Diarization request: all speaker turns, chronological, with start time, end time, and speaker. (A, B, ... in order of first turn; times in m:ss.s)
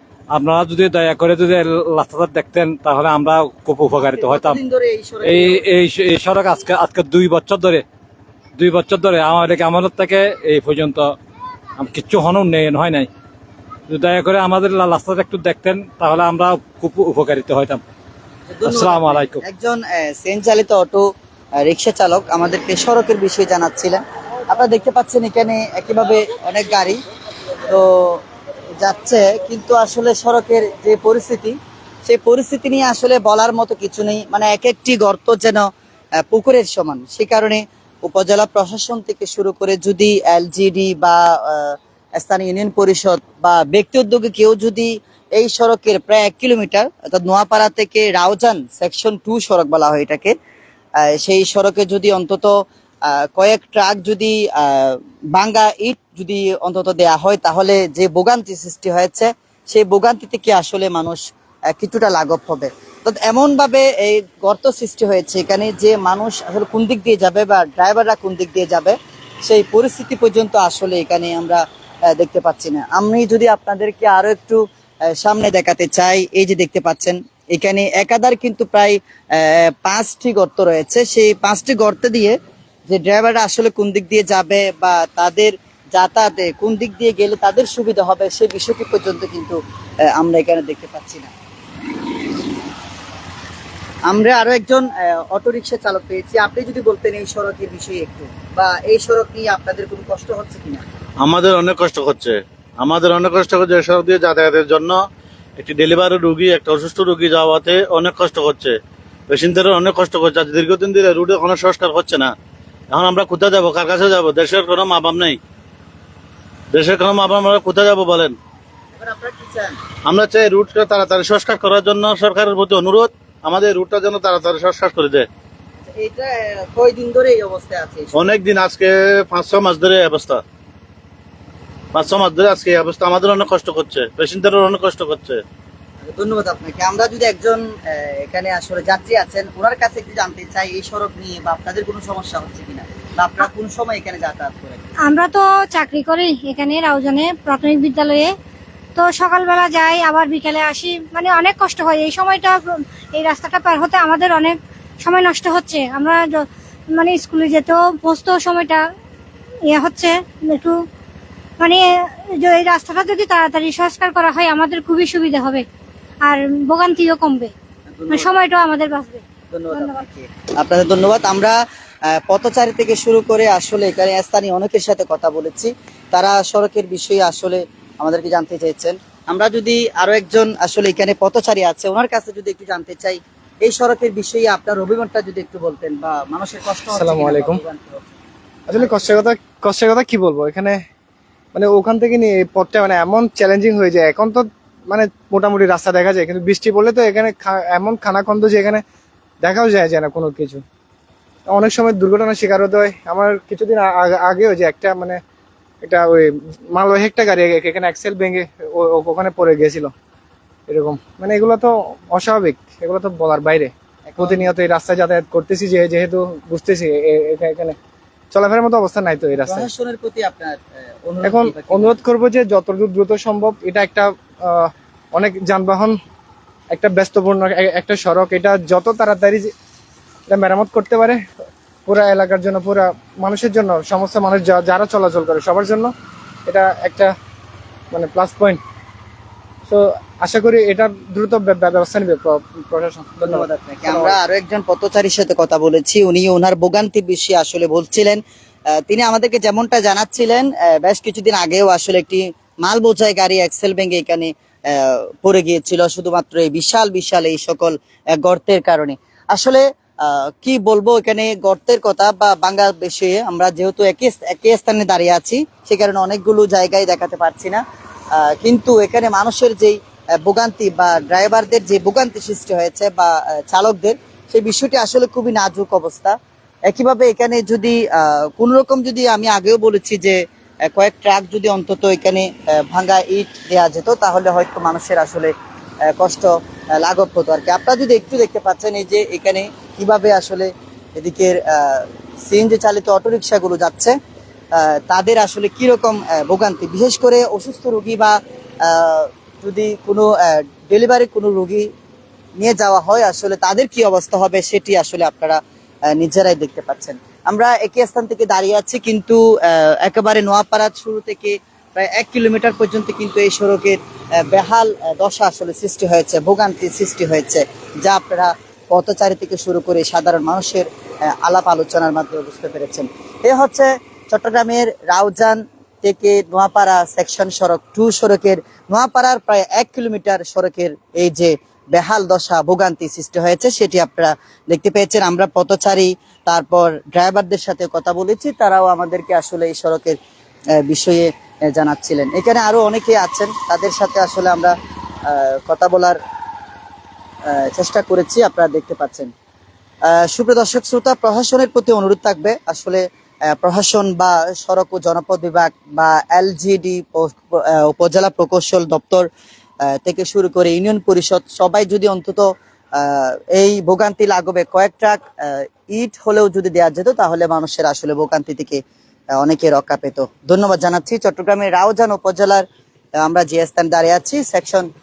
0:00.3-0:04.6 A
0:04.0-0:05.7 B
0:05.2-0:07.8 A
0:08.6-0:11.1 A
0:11.8-0:13.1 A
0:13.9-0:17.8 A
0:18.5-0:21.0 B
0:18.6-0:19.4 A
0:21.6-0:27.0 B
0:27.7-0:28.2 B
0:28.8-0:35.7 B
0:36.3-0:50.3 B
0:51.1-0:52.5 B
0:53.1-1:01.2 B
1:01.7-1:11.6 B
1:12.2-1:14.6 B
1:15.2-1:22.4 B
1:22.9-1:29.6 B
1:30.1-1:31.3 B
1:34.1-1:40.8 B
1:41.2-1:45.0 C
1:45.6-1:48.8 C
1:49.3-1:52.3 C
1:52.9-1:55.4 C
1:56.7-1:58.4 C
1:59.0-1:59.8 B
2:00.0-2:05.3 C
2:05.9-2:08.4 B
2:08.1-2:10.4 C
2:11.9-2:15.4 C
2:16.1-2:24.9 B
2:25.0-2:28.3 D
2:29.0-2:32.6 D
2:33.2-2:36.2 D
2:37.0-2:38.8 D
2:39.7-2:40.8 D
2:42.4-2:45.6 D
2:46.2-2:47.5 D
2:47.9-2:48.3 B
2:48.1-2:50.0 D
2:49.5-2:51.6 B
2:52.2-3:08.1 B
3:06.9-3:07.6 E
3:08.7-3:10.8 E
3:08.8-3:09.2 B
3:11.5-3:18.8 E
3:19.4-3:20.6 E
3:21.5-3:25.2 E
3:25.8-3:29.9 E
3:30.7-3:37.8 E
3:34.1-3:34.5 B
3:38.3-3:39.7 E
3:39.3-3:42.0 B
3:41.2-3:46.0 E
3:46.7-3:49.5 E
3:50.3-3:51.2 E
3:51.9-3:55.9 E
3:56.5-3:57.1 E
3:57.9-3:58.6 E
3:59.7-4:04.2 E
4:03.2-4:08.2 B
4:08.8-4:27.6 B
4:28.2-4:36.2 B
4:36.7-4:40.2 B
4:40.7-4:45.3 B
4:46.0-4:46.3 B
4:46.8-4:54.0 B
4:54.6-4:58.2 B
4:58.7-5:01.7 B
5:02.4-5:05.4 B
5:05.9-5:20.7 B
5:21.2-5:40.0 B
5:40.7-5:44.6 B
5:45.1-5:46.0 B
5:47.3-5:49.1 B
5:49.9-5:52.8 B
5:53.3-5:59.1 B
5:59.8-6:02.2 B
6:02.8-6:08.6 B
6:09.2-6:12.4 B
6:13.0-6:14.7 B